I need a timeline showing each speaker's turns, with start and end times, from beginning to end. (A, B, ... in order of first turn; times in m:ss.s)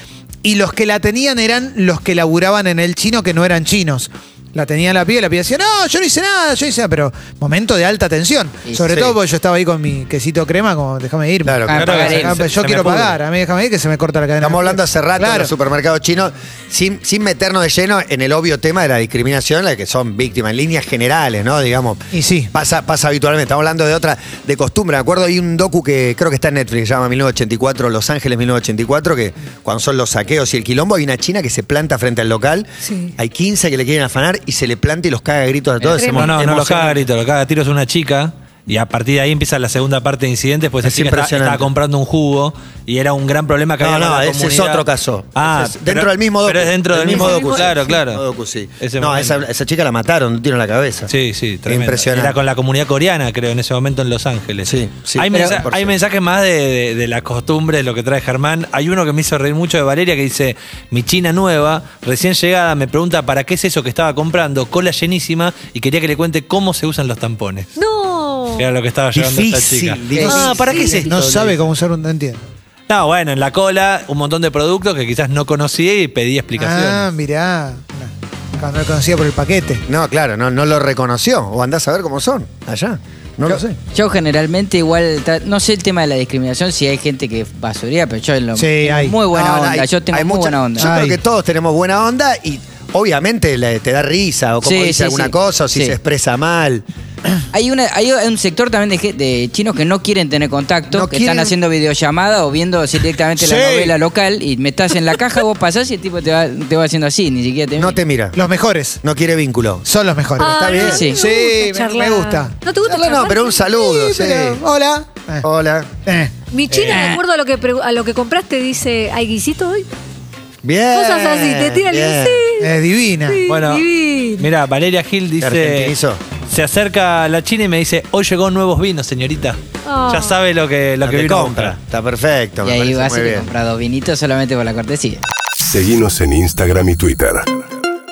0:00.4-0:15.5 A
0:08.9-0:09.2 B
0:11.4-0:12.0 B
0:11.7-0:12.4 C
0:11.7-0:13.1 D
0:12.8-0:13.1 B
0:14.4-0:37.0 B
0:22.1-0:22.5 A
0:32.8-0:33.1 E
0:35.8-0:36.0 C
0:36.0-0:36.4 E
0:36.1-0:48.2 D
0:40.8-0:41.7 B
0:43.8-0:51.1 B
0:47.1-0:47.7 E
0:48.8-0:49.4 D
0:51.1-1:07.7 D
0:51.6-0:52.4 B
0:54.6-0:55.9 B
0:55.3-0:55.6 C
1:07.8-1:08.7 E
1:08.6-1:11.3 D
1:09.1-1:11.6 B
1:10.2-1:12.5 A
1:12.9-1:17.1 D
1:16.6-1:19.8 A
1:19.8-1:23.8 B
1:23.9-1:30.9 C
1:28.5-1:29.2 A
1:29.3-1:36.8 B
1:30.8-1:31.2 A
1:34.6-1:36.0 C
1:37.5-1:48.0 C
1:40.9-1:41.5 B
1:43.4-1:44.0 A
1:47.8-1:48.4 B
1:48.3-1:49.0 A
1:49.0-1:49.8 B
1:49.8-1:52.6 A
1:50.4-1:53.9 E
1:50.6-1:51.0 B
1:50.8-1:51.2 C
1:52.8-1:54.6 B
1:53.9-1:55.4 A
1:55.4-1:55.9 B
1:56.0-1:56.4 A
1:56.5-1:59.8 E
1:56.8-1:57.2 C
2:00.6-2:02.4 B
2:00.9-2:04.5 E
2:02.6-2:03.4 A
2:03.5-2:05.9 D
2:05.4-2:06.2 B
2:06.5-2:11.8 D
2:09.8-2:10.4 E
2:11.0-2:13.5 B
2:12.6-2:15.2 C
2:15.7-2:17.6 F